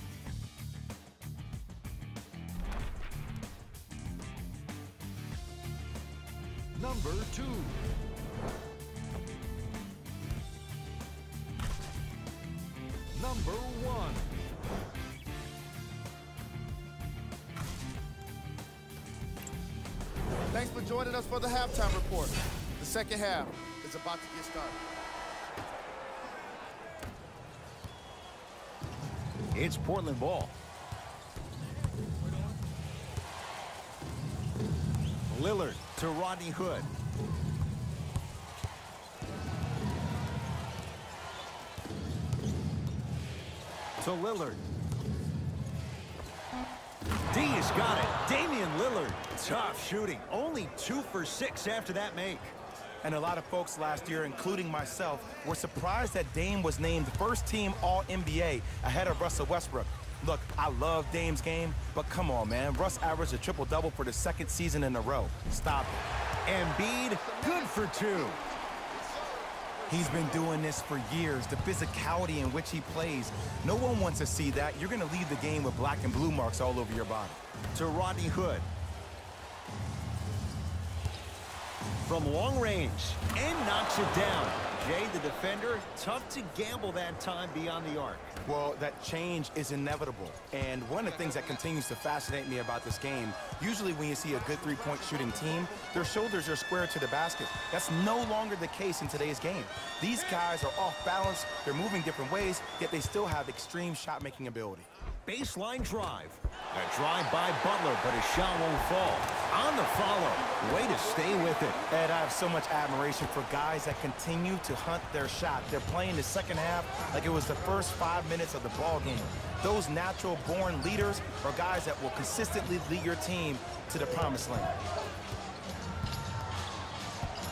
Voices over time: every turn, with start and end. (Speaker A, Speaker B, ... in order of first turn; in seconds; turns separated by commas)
Speaker A: 6.7-7.8, Speaker A: 13.1-14.3, Speaker B: 20.5-24.8, Speaker C: 29.5-30.5, Speaker C: 35.3-36.9, Speaker C: 44.0-44.6, Speaker C: 47.3-52.5, Speaker D: 53.0-66.0, Speaker C: 66.5-68.4, Speaker D: 69.9-77.4, Speaker C: 77.7-78.7, Speaker C: 82.0-88.3, Speaker D: 88.4-104.9, Speaker C: 105.2-111.8, Speaker D: 111.9-124.8